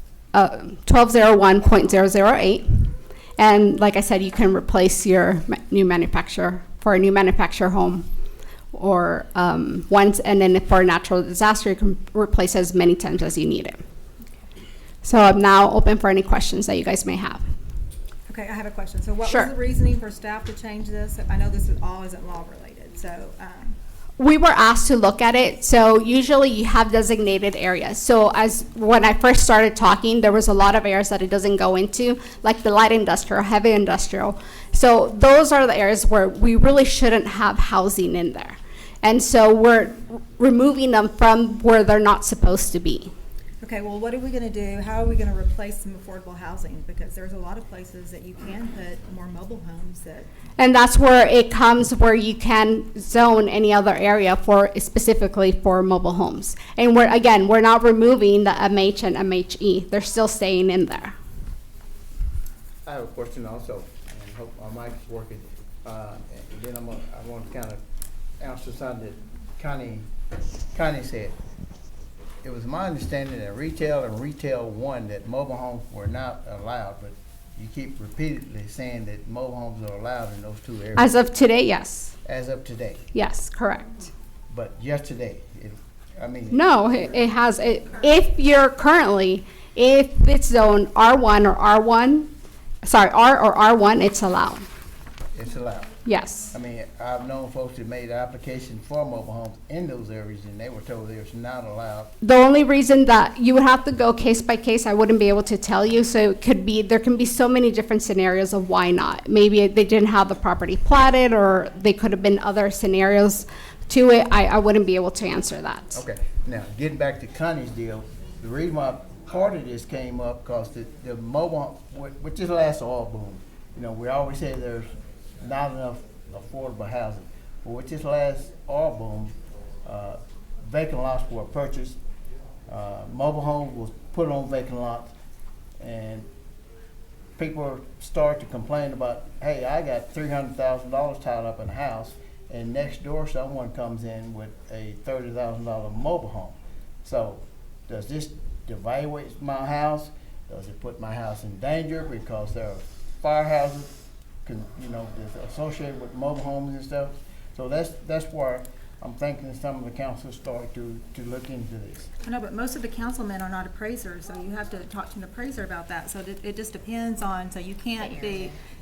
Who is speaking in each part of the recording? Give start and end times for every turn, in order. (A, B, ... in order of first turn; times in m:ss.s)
0:00.3-0:08.1 A
0:08.7-0:13.8 A
0:15.0-0:17.4 A
0:18.3-0:23.8 B
0:19.3-0:19.5 A
0:24.2-0:43.1 A
0:43.6-0:50.3 B
0:50.6-1:01.2 A
1:02.9-1:07.8 C
1:08.4-1:10.1 C
1:10.7-1:11.4 C
1:12.4-1:21.1 C
1:21.0-1:22.1 A
1:22.2-1:23.0 C
1:23.1-1:24.1 A
1:24.5-1:26.6 C
1:26.5-1:32.3 A
1:32.8-1:34.7 A
1:35.4-1:35.9 C
1:36.1-1:36.5 A
1:36.5-1:42.1 C
1:42.2-1:56.0 A
1:55.9-2:04.9 C
2:05.4-2:09.3 C
2:09.8-2:12.0 C
2:12.7-2:15.1 C
2:15.8-2:16.3 C
2:17.4-2:33.9 C
2:34.4-2:42.1 C
2:42.2-2:48.6 B